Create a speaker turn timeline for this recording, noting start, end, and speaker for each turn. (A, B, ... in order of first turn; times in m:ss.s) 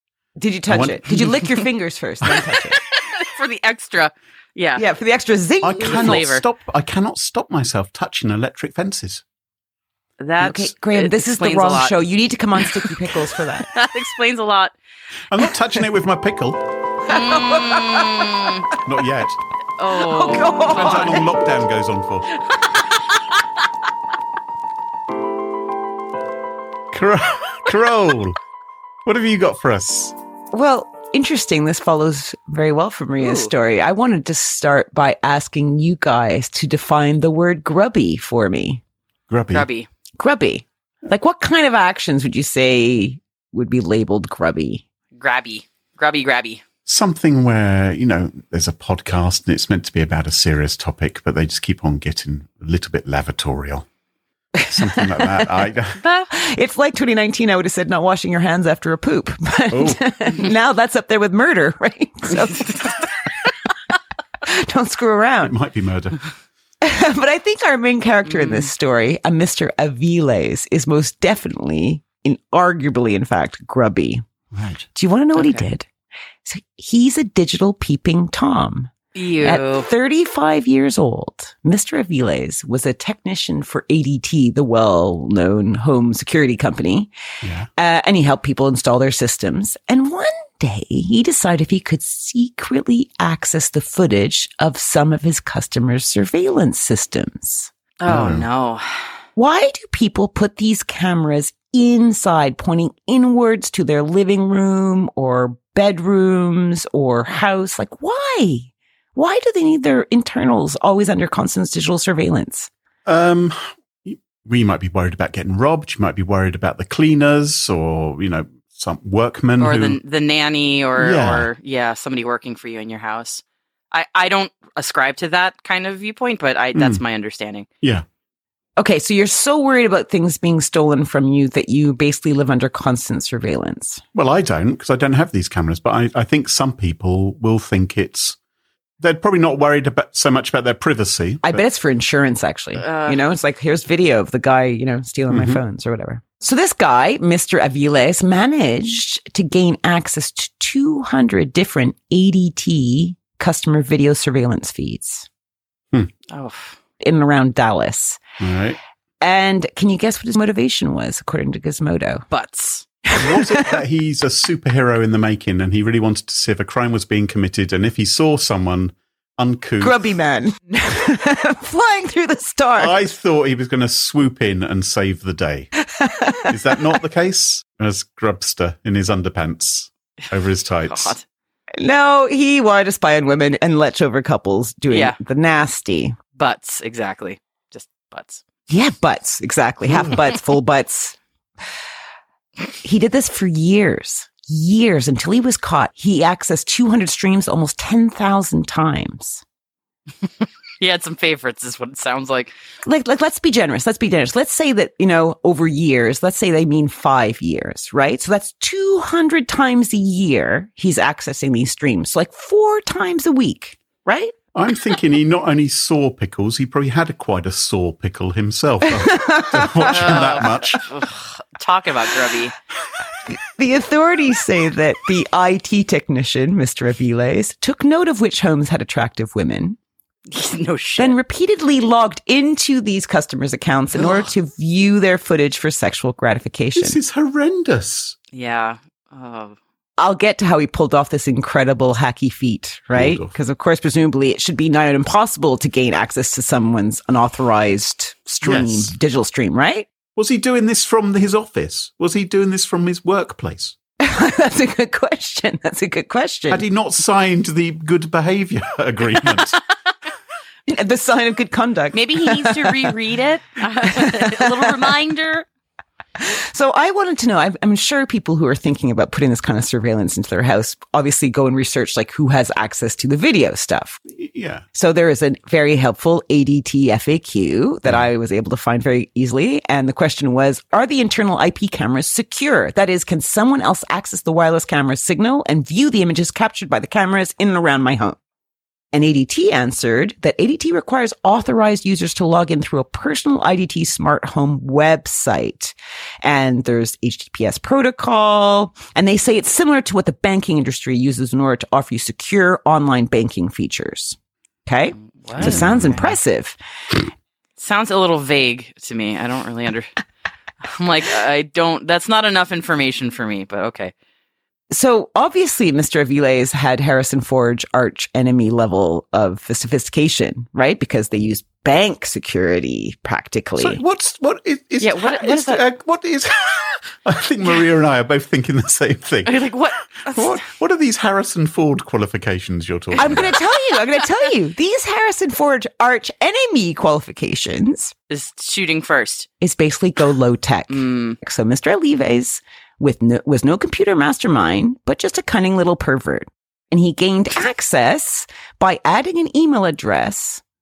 0:00.4-0:02.8 A
0:00.7-0:01.5 B
0:02.7-0:04.8 C
0:04.8-0:06.3 A
0:05.6-0:09.2 B
0:05.8-0:06.4 C
0:10.2-0:12.0 C
0:10.4-0:13.7 A
0:13.6-0:14.7 C
0:15.3-0:16.6 B
0:17.0-0:18.7 C
0:17.1-0:18.3 A
0:18.8-0:19.4 B
0:19.8-0:21.3 C
0:19.9-0:21.3 A
0:20.6-0:22.3 B
0:22.4-0:23.4 C
0:26.9-0:28.4 B
0:29.0-0:30.1 B
0:30.5-0:38.8 A
0:33.2-0:33.5 C
0:39.3-0:39.7 B
0:39.5-0:39.9 C
0:40.2-0:44.8 A
0:45.2-0:46.6 C
0:46.8-0:53.8 B
0:54.5-0:55.7 A
0:54.6-0:56.0 B
0:56.3-1:03.3 A
0:59.7-1:00.0 B
1:04.4-1:05.6 A
1:05.4-1:06.3 B
1:06.8-1:14.2 A
1:08.3-1:08.7 C
1:14.5-1:14.8 B
1:14.9-1:15.9 A
1:15.3-1:15.6 C
1:16.4-1:27.1 A
1:19.1-1:19.9 C
1:27.4-1:27.7 B
1:27.8-1:37.7 A
1:38.0-1:39.0 C
1:38.1-1:38.4 B
1:39.4-1:52.7 A
1:53.0-2:00.0 B
1:59.6-2:07.7 C
2:01.0-2:01.5 B
2:06.7-2:07.0 B
2:08.8-2:14.0 A
2:14.1-2:18.4 B
2:19.0-2:21.6 B
2:21.4-2:35.3 A
2:22.8-2:23.2 C
2:25.3-2:25.6 B
2:36.3-2:36.8 C
2:37.0-2:38.2 A
2:38.4-2:38.8 B
2:39.2-2:42.2 A
2:42.3-2:42.8 C
2:43.0-2:43.8 A
2:43.1-2:50.0 B
2:49.8-2:53.0 A
2:52.8-2:55.7 B
2:55.9-2:56.8 A
2:56.4-3:01.1 B
3:00.8-3:01.2 C
3:01.8-3:06.2 A
3:04.9-3:05.2 C
3:06.4-3:08.4 C
3:08.7-3:11.2 A
3:09.9-3:10.1 B
3:12.8-3:19.4 A
3:20.8-3:22.5 C
3:22.8-3:34.3 A
3:34.5-3:40.8 B
3:38.8-3:40.5 A
3:39.9-3:42.5 C
3:43.2-3:49.8 A
3:50.3-3:51.2 C
3:51.0-3:57.0 A
3:54.0-3:54.3 C
3:56.8-3:58.2 B
3:58.3-3:59.6 C
4:00.0-4:09.9 A
4:02.9-4:03.3 B
4:08.4-4:08.9 B
4:10.1-4:13.7 B
4:14.0-4:16.6 A
4:16.5-4:19.6 B
4:20.7-4:22.9 A
4:21.9-4:25.4 C
4:23.8-4:24.8 A
4:26.2-4:34.0 A
4:34.1-4:34.6 B
4:34.7-4:48.2 A
4:48.9-5:06.6 A
5:05.0-5:06.0 C
5:05.4-5:06.0 B
5:07.6-5:09.9 C
5:10.6-5:13.9 C
5:14.7-5:23.8 A
5:23.6-5:33.4 B
5:24.8-5:25.6 C
5:29.2-5:30.4 C
5:33.0-5:37.9 A
5:38.1-5:39.3 C
5:39.4-5:50.4 A
5:40.7-5:41.2 C